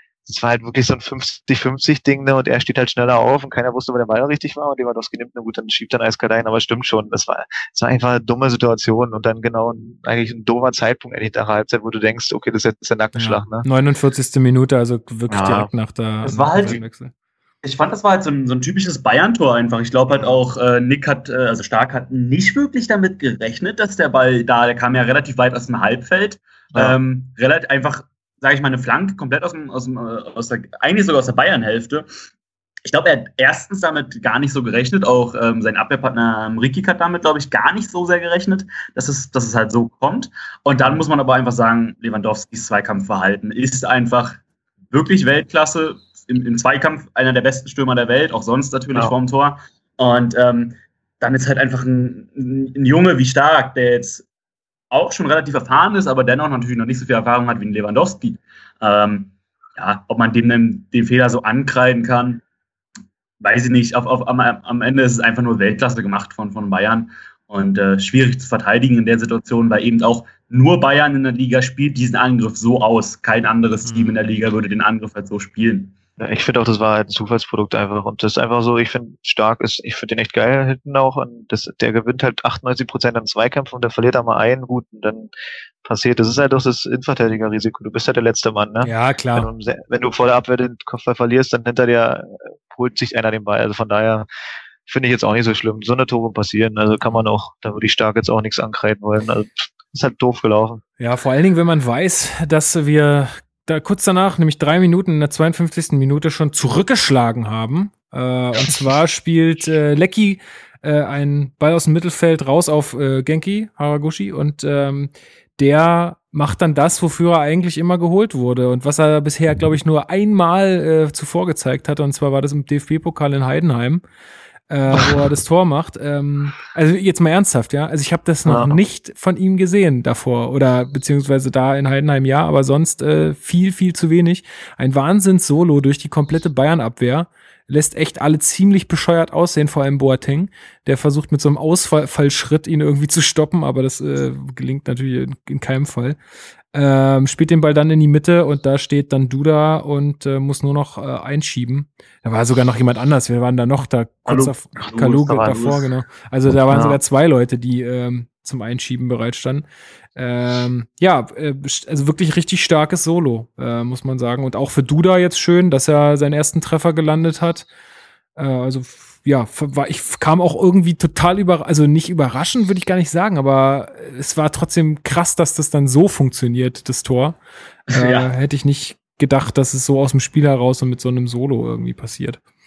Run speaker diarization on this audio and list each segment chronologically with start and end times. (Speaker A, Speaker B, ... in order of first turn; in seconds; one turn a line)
Speaker A: 0.2-13.7
Speaker B: 13.1-17.1
Speaker A: 15.3-15.7
Speaker C: 16.2-16.8
Speaker C: 17.6-32.1
Speaker A: 20.1-20.4
Speaker C: 32.8-54.2
Speaker C: 54.9-62.4
Speaker C: 63.4-75.9
Speaker A: 76.2-85.3
Speaker A: 85.8-94.2
Speaker B: 88.8-89.5
Speaker A: 94.8-100.8
Speaker B: 101.0-124.0
Speaker B: 124.7-146.2
Speaker A: 124.9-125.2
Speaker A: 128.4-128.8
Speaker B: 146.7-167.7
Speaker C: 154.3-155.8
Speaker A: 156.7-157.0
Speaker B: 168.3-177.4
Speaker C: 177.9-178.3
Speaker B: 177.9-182.4